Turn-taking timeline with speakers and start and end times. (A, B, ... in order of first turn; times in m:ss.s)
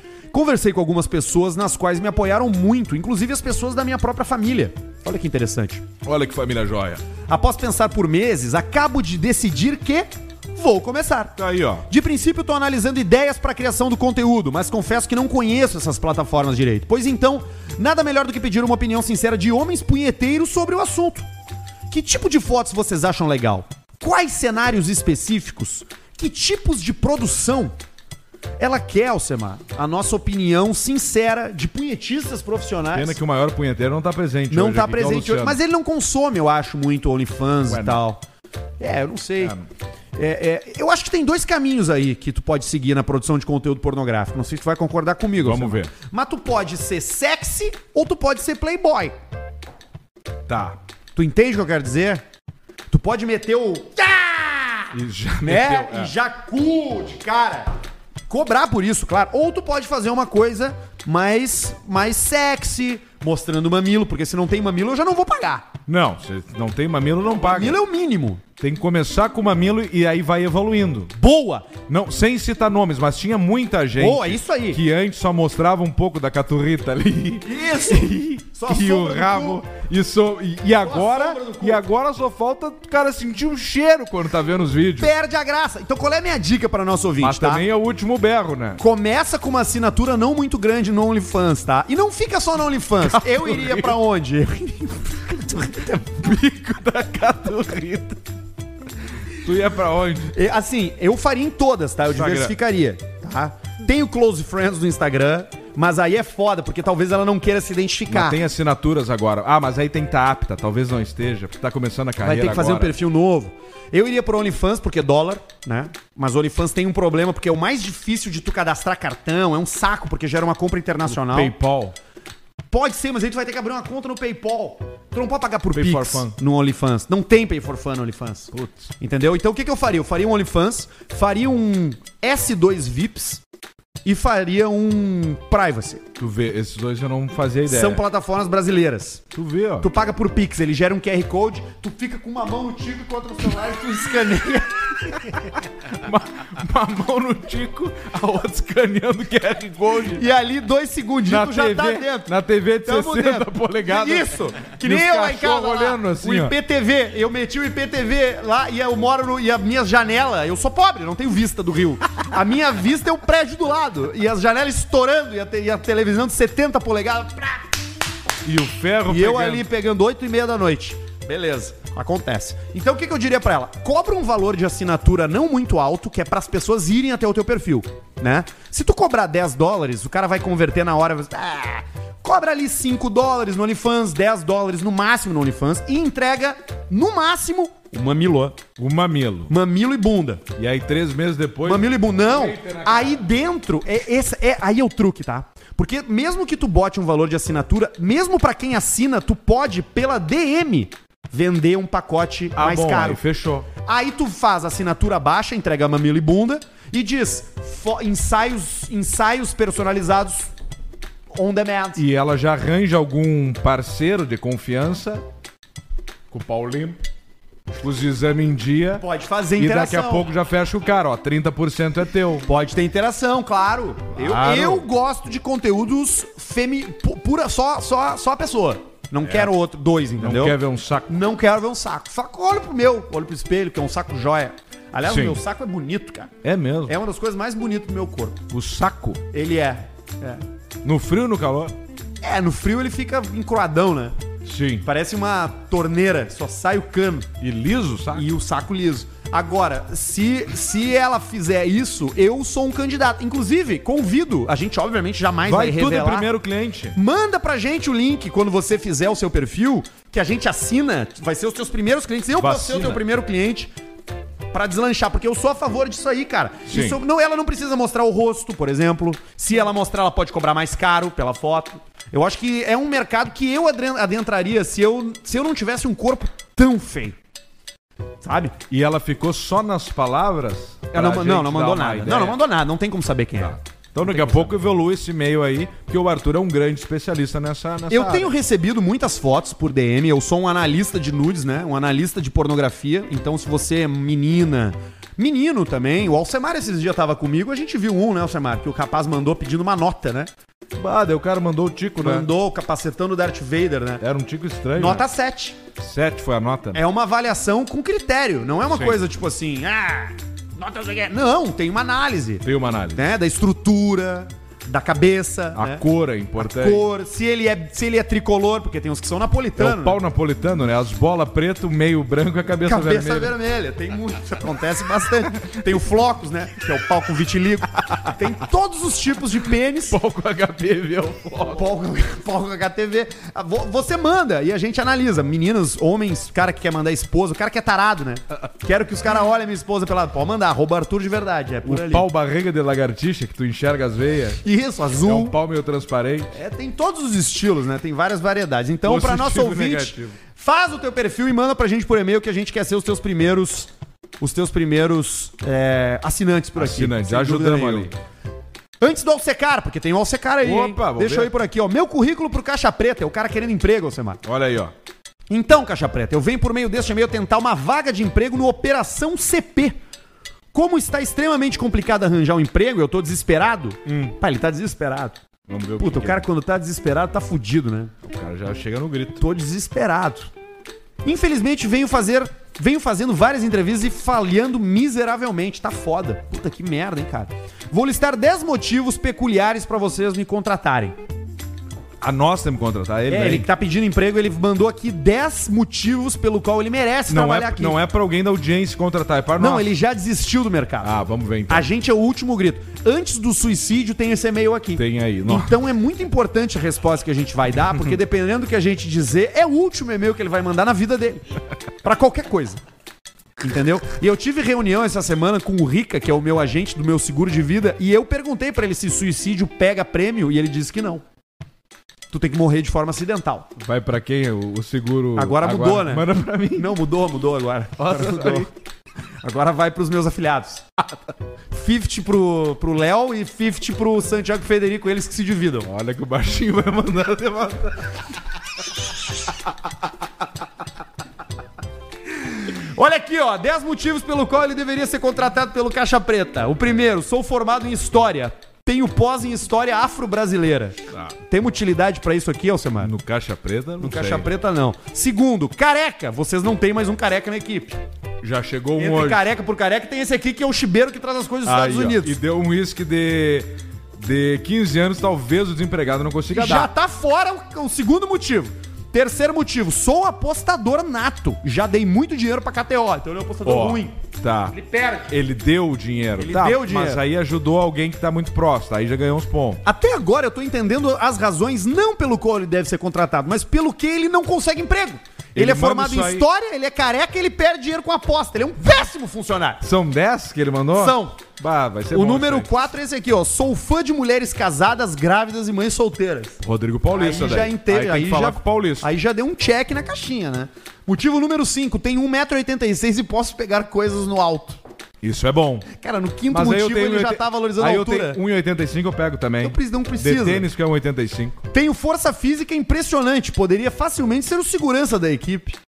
0:00.3-0:05.8 A
0:06.0-0:07.0 B
0:07.3-0:11.4 A
0:11.4-0:11.8 B
0:11.9-0:21.2 A
0:21.9-0:27.7 A
0:28.6-0:33.2 A
0:32.9-0:35.6 B
0:34.5-0:38.2 A
0:37.7-0:38.0 B
0:38.8-0:39.5 A
0:39.4-0:39.7 B
0:40.1-0:49.1 A
0:45.4-0:45.9 B
0:50.5-0:50.8 B
0:51.1-0:52.2 A
0:52.9-0:57.7 A
0:54.9-0:56.1 B
0:58.3-1:05.7 A
1:05.9-1:07.8 B
1:07.2-1:08.4 A
1:08.6-1:11.1 B
1:11.2-1:11.7 A
1:11.9-1:25.1 B
1:14.0-1:14.8 A
1:17.4-1:19.6 A
1:20.8-1:21.8 A
1:25.0-1:27.6 A
1:27.2-1:28.8 B
1:28.8-1:36.2 A
1:33.0-1:34.0 B
1:36.2-1:38.2 B
1:39.3-1:40.3 B
1:40.3-1:48.4 A
1:42.1-1:42.6 B
1:48.1-1:53.0 B
1:52.2-2:01.5 A
2:01.1-2:01.9 B
2:02.7-2:13.4 A
2:05.7-2:06.4 B
2:08.5-2:08.9 B
2:14.0-2:16.0 A
2:16.2-2:18.0 B
2:17.6-2:19.2 A
2:19.3-2:19.9 B
2:19.8-2:25.4 A
2:25.3-2:30.2 B
2:30.1-2:32.3 A
2:31.2-2:36.5 B
2:32.8-2:47.8 A
2:48.4-2:49.7 B
2:49.1-3:08.6 A
3:08.8-3:09.5 B
3:09.5-3:10.4 A
3:10.6-3:13.2 B
3:11.6-3:23.2 A
3:22.6-3:23.7 B
3:23.8-3:30.5 A
3:31.3-3:32.0 A
3:32.0-3:35.2 B
3:36.3-3:37.0 B
3:37.8-3:39.0 B
3:39.0-3:40.3 A
3:39.6-3:42.4 B
3:42.4-3:50.6 A
3:44.1-3:44.9 B
3:49.2-3:49.5 B
3:50.2-3:51.2 B
3:51.1-3:56.3 A
3:55.0-3:55.4 B
3:56.4-3:57.0 B
3:56.8-3:58.4 A
3:58.5-3:59.2 B
3:59.3-4:00.4 A
4:00.8-4:01.8 B
4:02.2-4:04.1 A
4:04.4-4:04.8 B
4:04.8-4:07.3 A
4:07.4-4:08.3 B
4:08.1-4:16.3 A
4:15.4-4:17.0 B
4:16.9-4:23.7 A
4:22.4-4:23.0 B
4:24.5-4:37.2 A
4:26.7-4:27.0 B
4:38.2-4:38.5 A
4:38.7-4:42.4 B
4:40.9-4:44.5 A
4:43.4-4:48.3 B
4:47.9-5:00.3 A
5:00.8-5:02.3 B
5:02.0-5:04.0 A
5:04.0-5:05.0 B
5:04.8-5:05.6 A
5:05.8-5:06.8 B
5:06.7-5:15.8 A
5:08.7-5:09.0 B
5:12.4-5:13.0 B
5:15.5-5:16.8 B
5:16.4-5:20.0 A
5:19.6-5:23.3 B
5:22.6-5:30.0 A
5:29.9-5:31.7 B
5:31.5-5:42.0 A
5:41.6-5:44.4 B
5:44.4-5:45.4 A
5:45.0-5:46.4 B
5:46.3-5:57.9 A
5:48.8-5:50.2 B
5:56.5-5:57.9 B
5:58.8-6:04.2 A
6:00.4-6:01.3 B
6:04.2-6:04.7 B
6:05.3-6:09.8 A
6:10.5-6:15.2 A
6:13.8-6:14.1 B
6:15.5-6:16.2 B
6:15.8-6:17.9 A
6:18.0-6:19.2 B
6:19.2-6:20.3 A
6:21.0-6:31.0 A
6:32.0-6:33.5 B
6:33.1-6:37.8 A
6:37.1-6:39.7 B
6:39.4-6:40.9 A
6:40.8-6:41.7 B
6:41.5-6:51.2 A
6:44.8-6:45.5 B
6:51.8-6:52.6 A
6:53.4-7:01.0 A
7:02.1-7:03.5 A
7:03.6-7:06.8 B
7:05.2-7:08.5 A
7:07.8-7:08.5 B
7:09.2-7:10.6 A
7:11.5-7:15.7 A
7:15.6-7:18.0 B
7:22.4-7:32.9 A
7:32.8-7:34.3 B
7:33.8-7:37.8 A
7:38.2-7:39.3 B
7:38.8-7:42.1 A
7:41.4-7:46.7 B
7:46.3-7:53.9 A
7:53.4-7:54.6 B
7:54.6-7:55.0 A
7:55.1-7:59.6 B
7:56.2-7:57.0 A
7:59.6-8:09.6 A
8:05.3-8:06.2 B
8:09.6-8:12.5 B
8:10.7-8:11.2 A
8:11.9-8:24.6 A
8:16.4-8:18.9 B
8:25.0-8:25.7 B
8:25.7-8:28.2 A
8:26.3-8:31.4 B
8:29.4-8:30.5 A
8:31.5-8:35.6 A